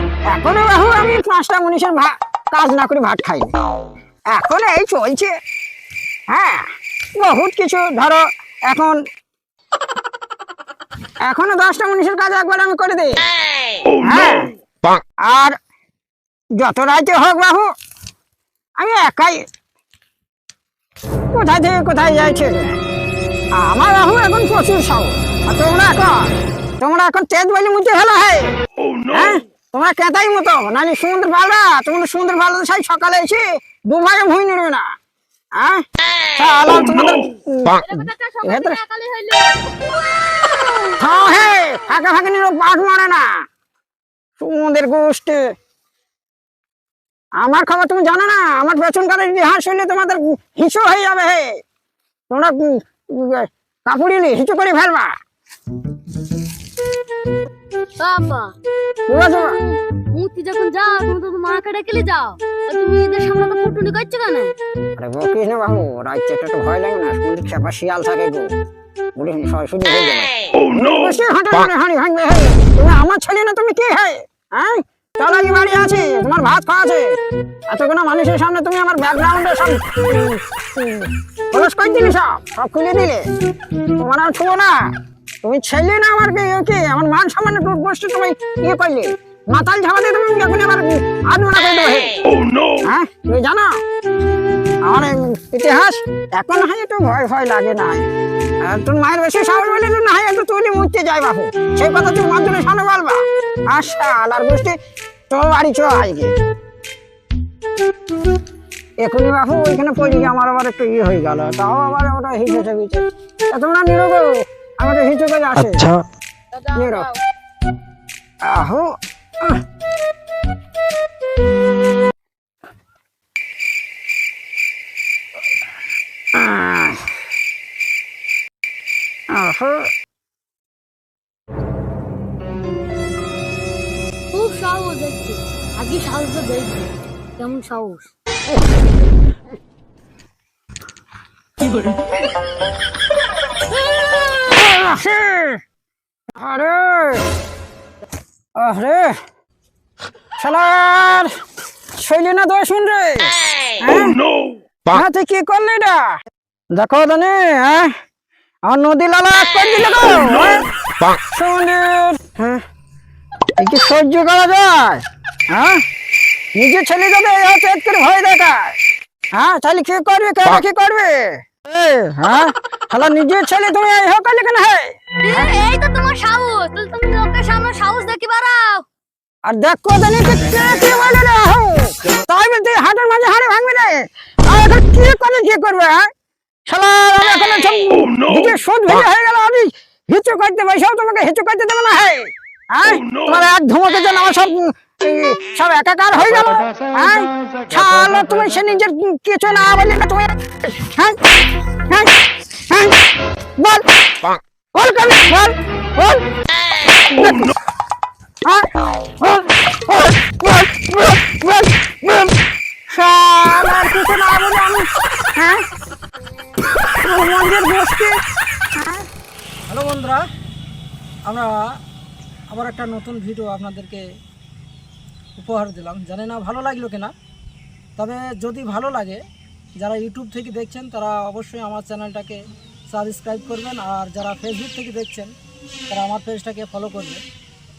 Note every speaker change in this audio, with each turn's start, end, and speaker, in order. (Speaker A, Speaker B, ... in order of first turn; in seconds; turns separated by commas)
Speaker A: 0.3-3.5, Speaker A: 4.3-5.3, Speaker A: 6.3-9.0, Speaker A: 11.2-13.3, Speaker A: 14.0-14.5, Speaker A: 15.2-15.6, Speaker A: 16.6-17.7, Speaker A: 18.8-19.4, Speaker A: 21.3-22.8, Speaker A: 23.6-28.5, Speaker A: 29.1-34.9, Speaker A: 35.6-38.8, Speaker B: 37.9-39.6, Speaker A: 41.0-43.4, Speaker A: 44.4-45.4, Speaker A: 47.4-51.6, Speaker A: 52.3-55.1, Speaker B: 58.0-58.5, Speaker A: 59.1-59.5, Speaker B: 59.2-64.5, Speaker A: 65.0-68.5, Speaker A: 69.2-77.2, Speaker A: 77.7-83.3, Speaker A: 84.0-92.2, Speaker A: 92.8-93.8, Speaker A: 94.8-98.1, Speaker A: 98.6-104.8, Speaker A: 105.3-106.3, Speaker A: 109.0-116.0, Speaker A: 116.7-117.1, Speaker A: 118.4-119.6, Speaker A: 126.3-127.1, Speaker A: 129.3-129.9, Speaker B: 134.3-138.1, Speaker A: 144.1-145.6, Speaker A: 146.4-147.3, Speaker A: 148.6-149.2, Speaker A: 150.4-151.3, Speaker A: 151.9-154.2, Speaker A: 154.9-156.2, Speaker A: 156.7-158.0, Speaker A: 158.7-162.6, Speaker A: 163.6-165.8, Speaker A: 166.6-168.8, Speaker A: 169.3-175.5, Speaker B: 175.2-178.8, Speaker A: 179.4-186.1, Speaker A: 186.7-201.2, Speaker A: 201.9-202.1, Speaker A: 202.7-203.0, Speaker A: 203.6-206.3, Speaker A: 207.1-207.6, Speaker A: 208.4-212.3, Speaker A: 212.9-215.7, Speaker A: 217.0-218.2, Speaker A: 218.8-219.1, Speaker C: 219.7-220.2, Speaker C: 221.3-221.7, Speaker C: 222.5-224.1, Speaker C: 225.4-227.1, Speaker C: 228.0-229.2, Speaker C: 229.8-235.3, Speaker C: 235.9-237.2